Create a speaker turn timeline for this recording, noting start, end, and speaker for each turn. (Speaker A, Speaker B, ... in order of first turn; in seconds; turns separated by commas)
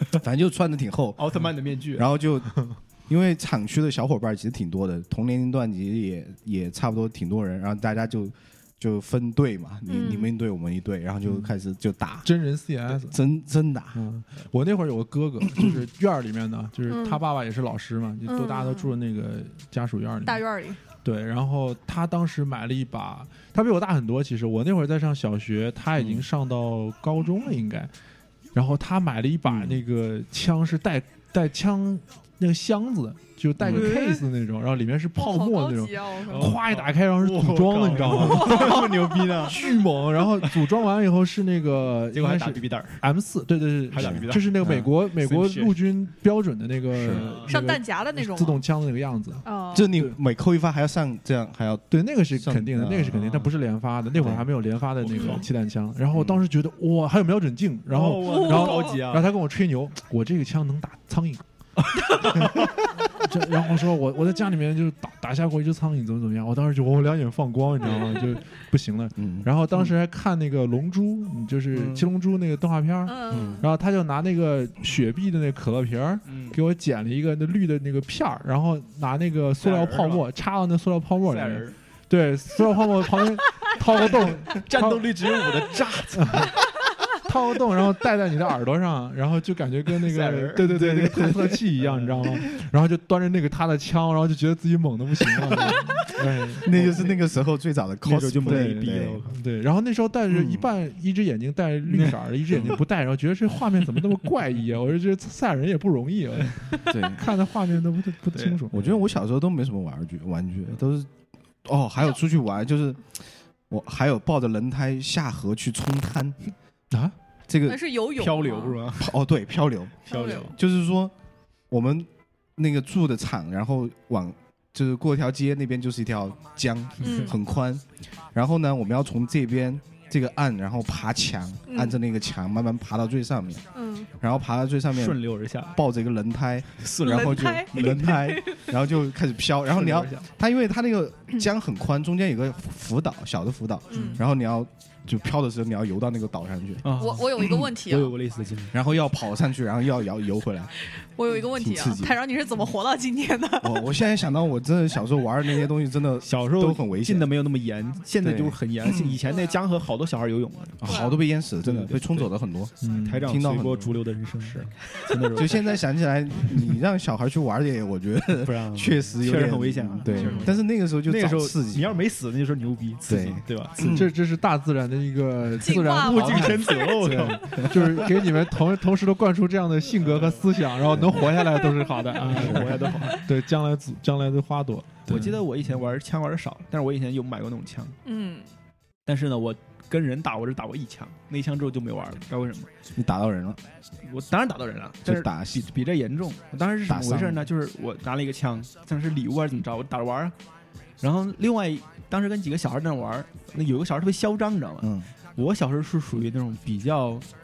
Speaker A: 0.1-1.4, Speaker B: 1.2-2.1, Speaker A: 1.9-12.3, Speaker C: 9.9-10.3, Speaker D: 12.2-13.2, Speaker A: 12.9-14.0, Speaker D: 13.9-20.4, Speaker C: 16.9-17.2, Speaker C: 18.3-18.9, Speaker C: 20.2-20.8, Speaker D: 20.9-27.9, Speaker A: 26.0-26.3, Speaker D: 28.5-38.9, Speaker A: 29.5-29.8, Speaker A: 33.6-33.9, Speaker C: 33.7-34.2, Speaker C: 35.1-36.6, Speaker B: 36.2-39.6, Speaker C: 38.2-39.4, Speaker D: 39.4-50.2, Speaker B: 42.1-43.0, Speaker B: 43.9-45.8, Speaker A: 44.0-44.9, Speaker B: 47.1-47.5, Speaker C: 47.5-48.6, Speaker C: 49.4-50.0, Speaker A: 49.7-53.4, Speaker D: 51.9-61.4, Speaker B: 53.1-53.5, Speaker A: 54.1-54.5, Speaker B: 55.0-55.4, Speaker C: 55.1-55.5, Speaker A: 56.1-56.4, Speaker B: 57.9-59.3, Speaker C: 58.2-59.0, Speaker B: 62.0-62.7, Speaker D: 62.3-85.4, Speaker A: 69.2-69.5, Speaker C: 73.1-73.7, Speaker A: 73.3-73.6, Speaker B: 76.3-76.6, Speaker B: 79.6-80.3, Speaker B: 81.2-81.8, Speaker B: 83.8-86.5, Speaker D: 86.2-86.5, Speaker D: 87.2-96.8, Speaker B: 90.0-92.5, Speaker B: 95.5-96.0, Speaker B: 96.6-97.2, Speaker A: 96.6-99.2, Speaker B: 98.0-99.4, Speaker D: 99.3-108.8, Speaker A: 100.3-100.7, Speaker B: 101.9-102.8, Speaker A: 106.9-107.2, Speaker B: 108.3-108.6, Speaker A: 108.7-111.1, Speaker A: 111.7-113.2, Speaker A: 113.7-116.4, Speaker A: 117.5-117.9, Speaker C: 117.6-118.8, Speaker B: 118.2-119.2, Speaker A: 119.0-121.1, Speaker B: 120.1-120.5, Speaker C: 120.1-120.6, Speaker A: 121.7-133.7, Speaker B: 127.0-127.3, Speaker C: 127.0-127.4, Speaker C: 131.7-132.0, Speaker C: 133.7-134.1, Speaker A: 134.2-146.9, Speaker B: 134.9-135.8, Speaker B: 136.8-138.4, Speaker C: 137.0-138.6, Speaker B: 139.7-140.3, Speaker C: 143.9-144.2, Speaker B: 143.9-144.2, Speaker B: 146.8-148.8, Speaker C: 147.0-148.2, Speaker A: 148.7-150.7, Speaker C: 151.2-153.9, Speaker A: 151.3-152.2, Speaker A: 153.6-157.3, Speaker B: 156.2-161.0, Speaker A: 158.2-159.2, Speaker C: 159.3-159.6, Speaker A: 160.8-163.9, Speaker C: 160.8-161.3, Speaker B: 161.6-162.3, Speaker D: 162.8-163.3, Speaker B: 162.9-165.8, Speaker A: 165.3-172.0, Speaker B: 168.4-174.0, Speaker C: 170.1-170.6, Speaker A: 173.1-174.1, Speaker D: 173.8-185.4, Speaker C: 175.6-177.2, Speaker B: 175.9-178.1, Speaker B: 180.0-180.6, Speaker A: 180.8-181.2, Speaker C: 181.3-182.2, Speaker B: 182.2-183.2, Speaker C: 182.9-183.2, Speaker B: 185.1-188.0, Speaker C: 188.1-188.5, Speaker B: 189.1-192.7, Speaker A: 192.9-193.6, Speaker B: 194.0-200.3, Speaker A: 195.0-195.7, Speaker A: 196.8-197.5, Speaker B: 201.0-207.3, Speaker A: 204.8-205.1